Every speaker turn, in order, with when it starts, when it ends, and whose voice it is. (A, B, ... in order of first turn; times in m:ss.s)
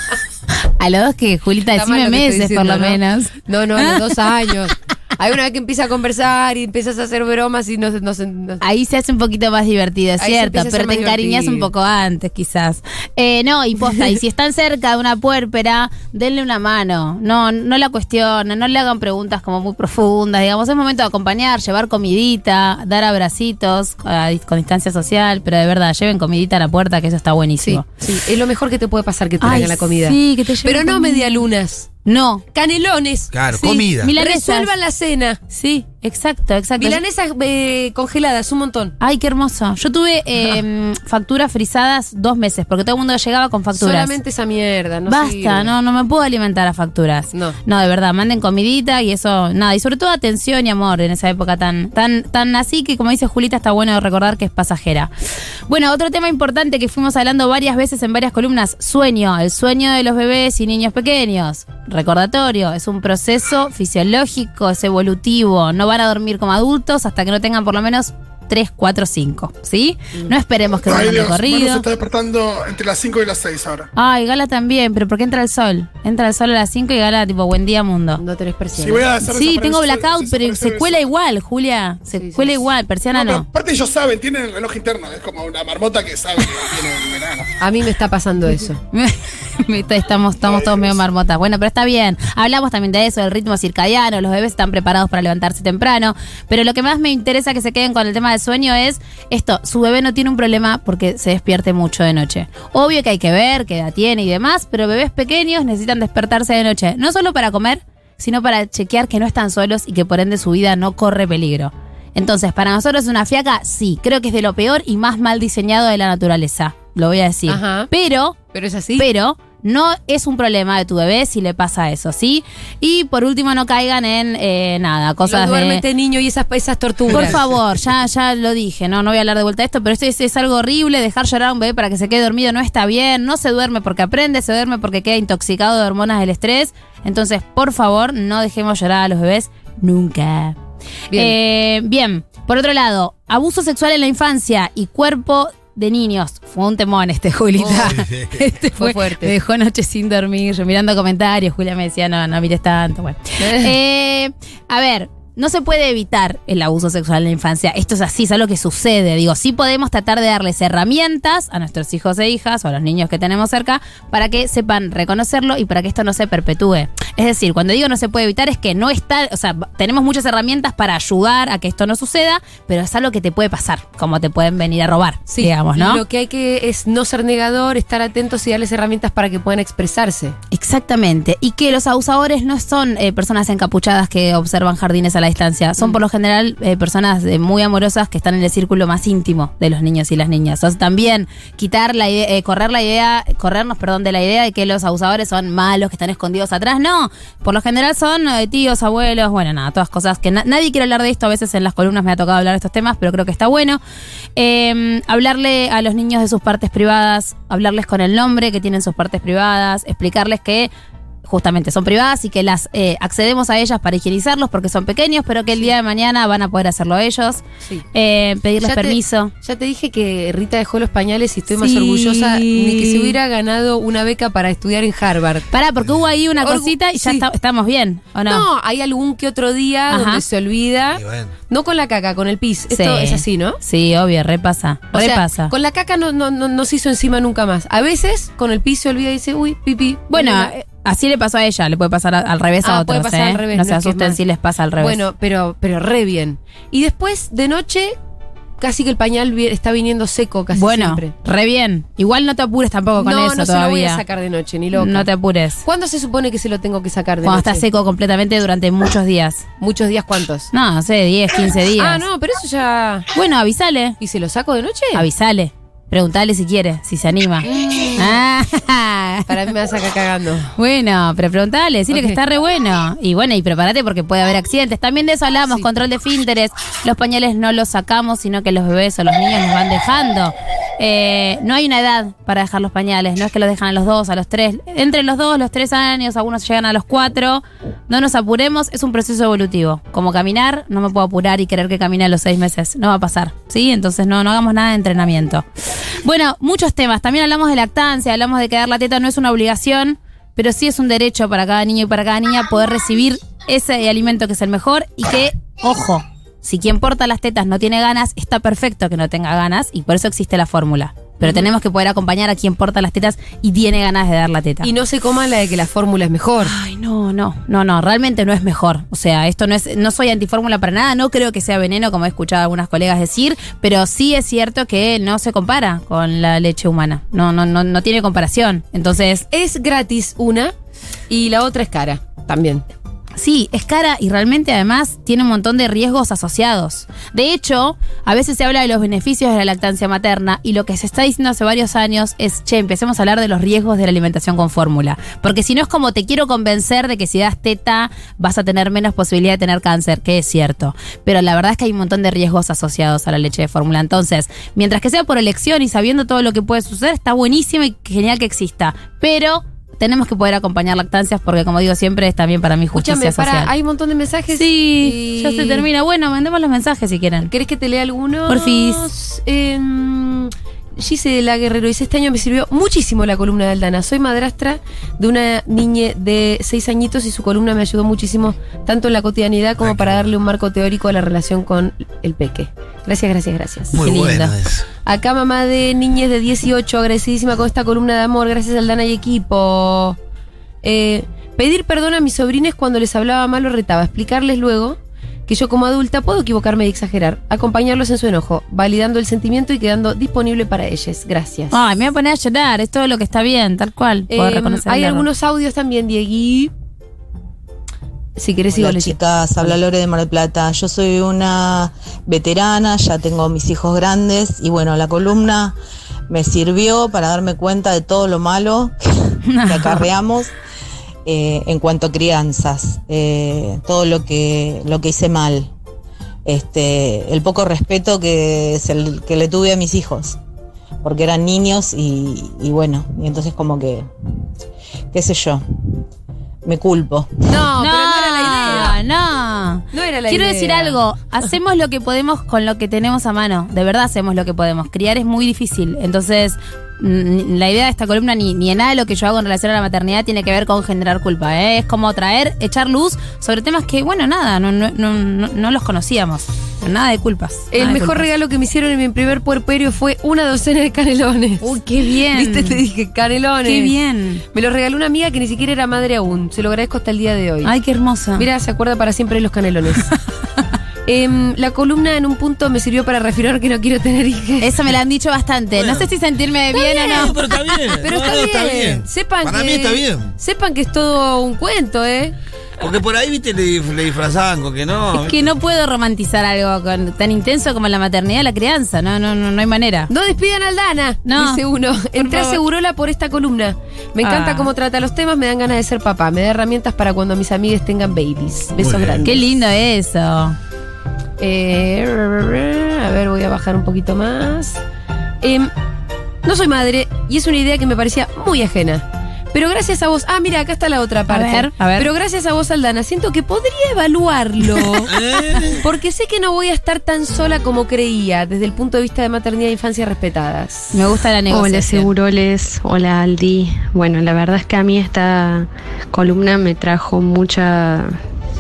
0:00.7-0:04.0 A
0:01.7-0:08.6 B
0:08.6-0:27.8 A
0:10.2-0:11.7 B
0:27.6-0:31.9 B
0:29.4-0:31.4 A
0:32.0-0:32.4 A
0:32.5-0:35.4 B
0:33.3-0:34.1 C
0:33.5-0:34.7 A
0:35.5-0:37.0 A
0:36.8-0:39.0 B
0:39.0-0:44.1 A
0:43.7-0:45.7 B
0:45.1-0:55.1 A
0:55.7-1:11.8 A
1:10.8-1:13.9 D
1:14.0-1:18.2 A
1:18.2-1:19.1 B
1:18.8-1:21.1 D
1:19.3-1:23.5 A
1:22.1-1:22.6 B
1:23.1-1:27.5 D
1:27.6-1:28.8 B
1:28.9-1:58.4 A
1:30.4-1:31.0 D
1:57.5-1:57.9 B
1:58.5-1:59.1 B
1:59.0-2:05.8 A
2:05.2-2:07.4 B
2:07.1-2:20.6 A
2:21.1-2:56.0 A
2:27.6-2:28.0 B
2:28.0-2:28.3 C
2:28.8-2:29.3 B
2:33.4-2:33.7 B
2:55.3-3:00.4 B
3:00.5-3:23.8 A
3:24.4-3:30.7 A
3:31.2-3:37.4 A
3:37.9-3:39.3 A
3:38.6-3:45.5 B
3:41.6-3:43.2 A
3:45.5-3:48.4 A
3:46.4-3:47.2 B
3:48.3-3:53.6 B
3:49.9-3:50.2 A
3:50.9-3:51.4 C
3:52.7-3:55.5 A
3:54.9-4:00.5 B
4:00.1-4:05.0 A
4:02.6-4:04.2 B
4:04.8-4:08.0 B
4:08.6-4:11.1 B
4:10.5-4:14.0 A
4:13.0-4:15.1 B
4:14.7-4:15.6 A
4:15.6-4:17.6 B
4:17.2-4:19.4 A
4:19.6-4:20.5 B
4:20.5-4:22.0 A
4:21.8-4:23.1 B
4:23.1-4:24.0 A
4:24.0-4:25.0 B
4:24.9-4:29.3 A
4:27.5-4:28.2 B
4:29.3-4:30.5 B
4:30.6-4:55.4 A
4:31.9-4:32.2 B
4:56.0-5:14.7 A
5:14.6-5:16.5 B
5:16.4-5:29.2 A
5:29.3-5:30.5 B
5:31.1-5:32.7 B
5:33.2-6:03.5 A
6:02.7-6:05.7 B
6:04.3-6:07.3 A
6:07.3-6:23.8 B
6:08.3-6:08.9 A
6:23.8-6:24.6 C
6:23.8-6:24.4 A
6:24.9-6:30.0 B
6:30.6-6:41.6 B
6:41.5-6:45.1 A
6:44.1-6:46.5 B
6:48.2-6:49.6 B
6:48.5-6:55.6 E
6:56.1-7:00.3 E
6:59.3-6:59.9 A
7:01.1-7:05.5 E
7:06.3-7:10.2 E
7:10.8-7:13.9 E
7:14.9-7:15.7 E
7:16.4-7:17.4 E
7:17.3-7:18.8 B
7:17.6-7:38.1 A
7:19.7-7:20.8 B
7:37.5-7:43.8 B
7:41.4-7:42.6 A
7:43.4-7:44.2 A
7:44.3-7:47.5 B
7:47.4-7:48.3 A
7:48.2-7:49.9 B
7:50.9-7:54.7 B
7:54.4-7:57.7 A
7:55.6-7:55.9 C
7:56.6-8:00.1 C
7:57.8-8:02.2 B
8:02.6-8:05.2 C
8:04.9-8:09.9 A
8:09.9-8:19.3 B
8:11.0-8:11.4 A
8:12.0-8:12.4 A
8:14.0-8:14.5 A
8:18.7-8:19.0 C
8:19.0-8:20.4 A
8:21.2-8:24.6 B
8:25.2-8:25.5 B
8:26.2-8:34.9 B
8:31.1-8:31.9 A
8:35.0-8:35.5 C
8:35.5-8:40.8 B
8:40.7-8:41.9 A
8:41.3-8:47.9 F